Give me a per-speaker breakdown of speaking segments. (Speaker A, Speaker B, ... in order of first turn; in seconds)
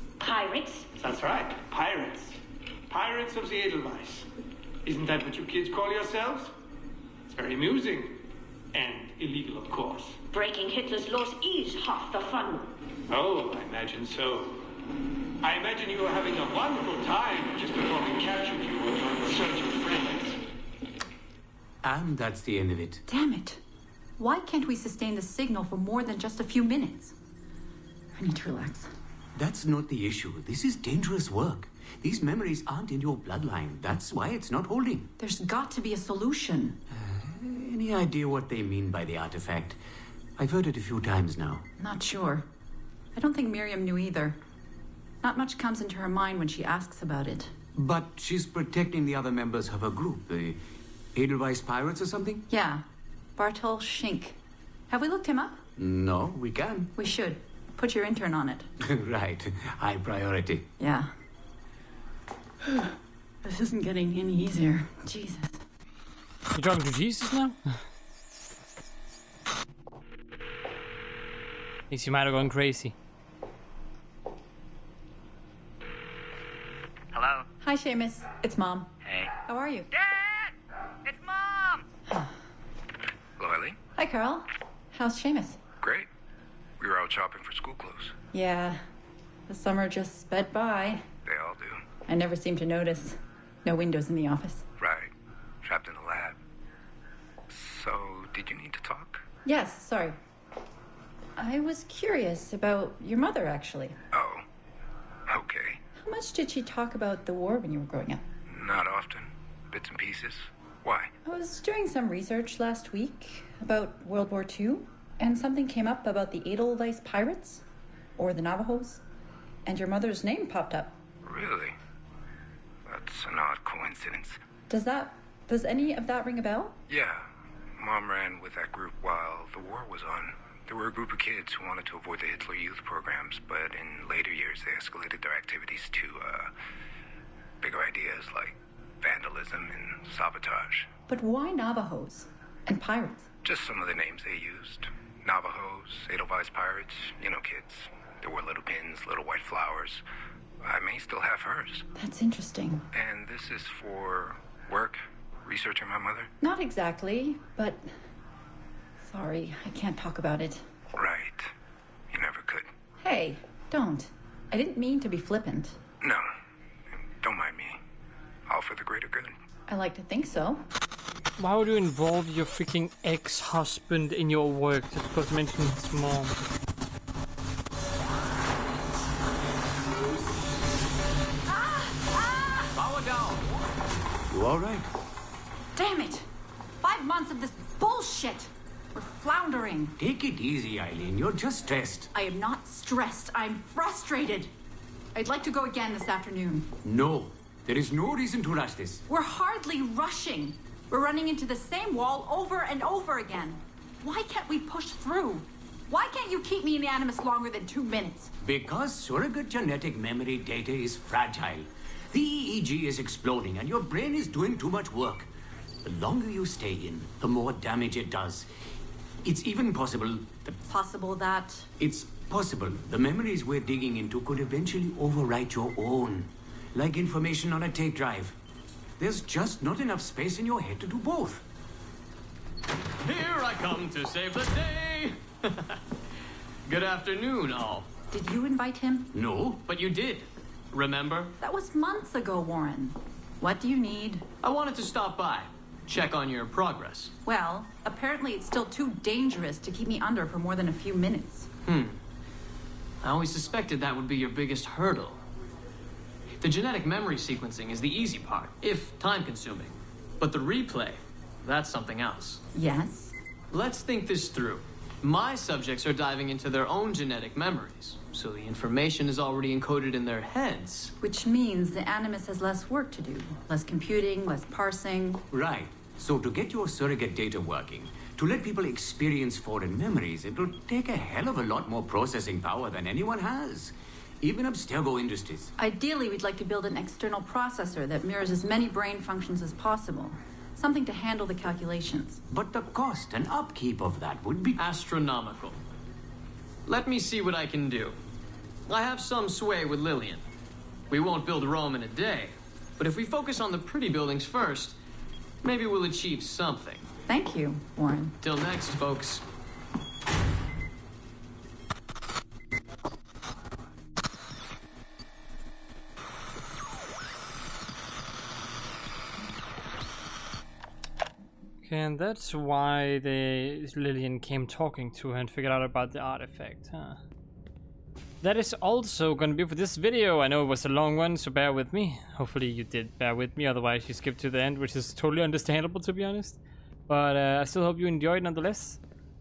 Speaker A: 0.2-0.9, 10.3-12.7
Speaker B: 1.0-4.3, 4.8-6.5, 7.3-8.2, 8.7-10.2, 13.1-14.7, 15.4-20.4
Speaker C: 21.8-23.0, 29.4-35.1, 36.9-39.8, 40.4-41.7, 47.7-50.6, 51.1-52.5, 55.8-56.9, 58.8-60.7, 182.7-183.5, 184.3-184.9, 190.0-192.1, 196.8-199.0, 208.4-215.3, 215.8-218.5, 219.2-220.6, 221.8-228.4, 229.0-231.4, 239.1-239.6, 275.3-285.5, 292.3-294.6
Speaker D: 23.1-23.6, 24.2-27.1, 28.1-28.9, 35.2-36.8, 41.8-42.5, 43.1-44.4, 45.2-47.5, 52.5-52.8, 53.4-54.4, 54.9-55.6, 57.0-58.7, 60.8-61.1, 62.6-65.6, 77.6-78.9, 79.5-79.9, 84.0-85.6, 88.3-88.8, 89.5-91.0, 92.1-94.7, 99.5-100.2, 101.4-104.0, 106.0-108.2, 111.2-117.6, 118.2-119.0, 119.7-121.0, 124.7-126.8, 141.1-143.3, 152.0-152.8, 156.4-157.9, 159.0-160.7, 163.0-165.8, 169.7-170.7, 181.5-182.7, 185.8-186.3, 186.8-189.9, 192.1-194.5, 195.1-196.7, 199.1-208.3, 220.7-221.7, 238.1-239.1, 241.4-244.2, 247.2-251.5, 262.5-263.1, 271.0-275.2, 285.6-292.2, 307.1-308.1
Speaker E: 66.5-67.9, 71.9-73.0, 171.4-176.3, 321.6-327.0, 328.2-338.8
Speaker F: 77.1-77.5, 79.0-79.3, 83.4-83.8, 85.8-86.1, 86.8-88.2, 91.2-91.8, 94.8-95.1, 95.6-96.4, 97.5-99.2, 104.1-104.5, 105.3-105.8, 108.5-111.1, 121.2-121.8, 122.9-124.4, 126.9-136.5, 137.6-140.9, 143.4-150.0, 150.6-151.8, 152.9-156.3, 160.9-161.5, 162.1-162.7, 166.0-166.3, 166.9-167.8, 168.5-169.4
Speaker G: 233.1-235.8, 236.7-237.9, 239.7-241.3, 244.4-247.1, 251.7-252.0, 253.0-255.2, 256.4-262.4, 263.5-270.9, 294.6-295.6, 296.7-298.0, 298.7-300.2, 300.9-304.8, 305.4-306.9, 308.2-309.2